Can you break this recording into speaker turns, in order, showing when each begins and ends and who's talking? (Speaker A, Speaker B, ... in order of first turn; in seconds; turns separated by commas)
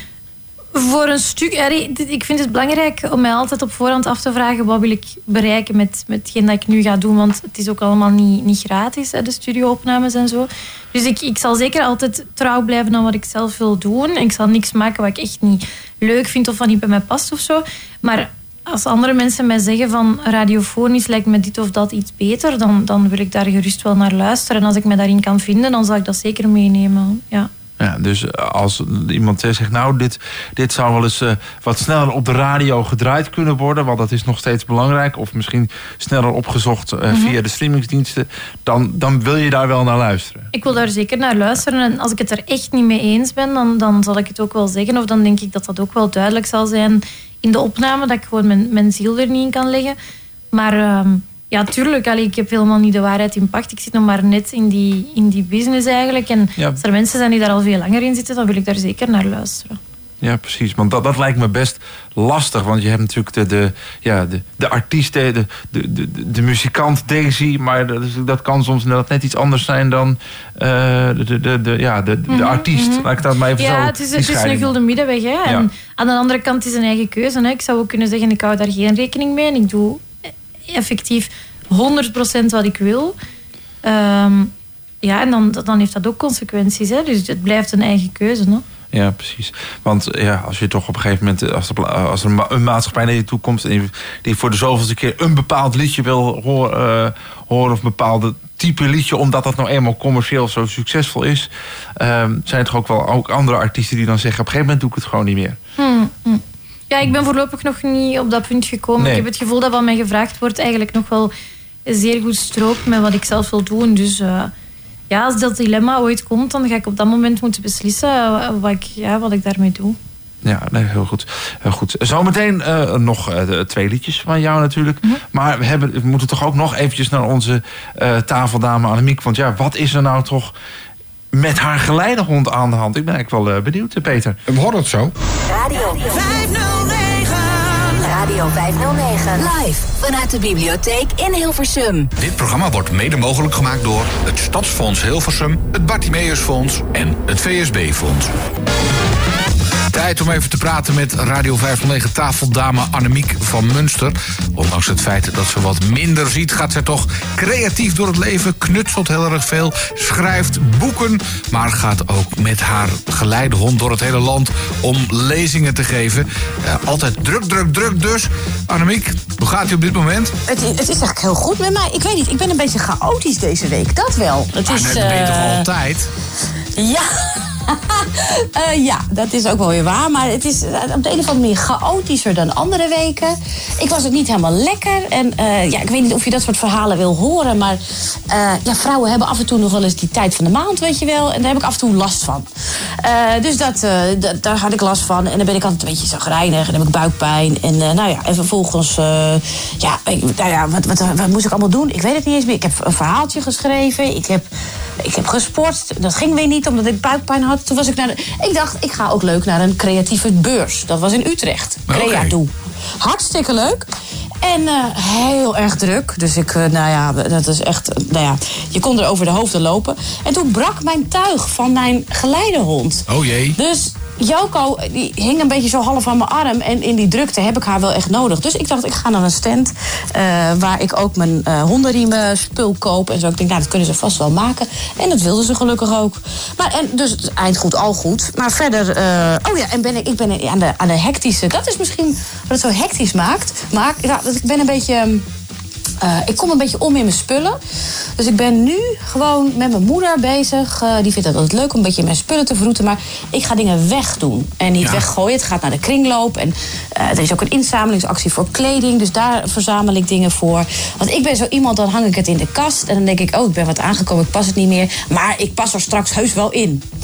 Speaker A: 0.8-27.5, Speaker B: 27.8-40.5, Speaker A: 37.1-37.4, Speaker A: 40.5-50.0, Speaker A: 50.5-59.8, Speaker B: 60.2-74.8, Speaker A: 72.3-80.1, Speaker A: 80.7-83.2, Speaker A: 83.8-84.5, Speaker A: 85.0-88.6, Speaker B: 88.9-105.6, Speaker A: 105.8-111.3, Speaker B: 109.0-109.3, Speaker A: 111.9-114.5, Speaker A: 115.1-120.0, Speaker B: 120.4-130.5, Speaker B: 131.3-134.4, Speaker C: 134.5-135.1, Speaker D: 135.4-142.1, Speaker C: 142.2-148.3, Speaker C: 149.9-170.4, Speaker E: 170.5-175.7, Speaker C: 174.7-176.1, Speaker E: 176.8-192.5, Speaker E: 193.0-204.5, Speaker E: 205.0-213.9, Speaker C: 211.9-212.3, Speaker E: 214.4-245.3, Speaker C: 223.1-223.6, Speaker E: 246.0-247.6, Speaker E: 248.2-266.9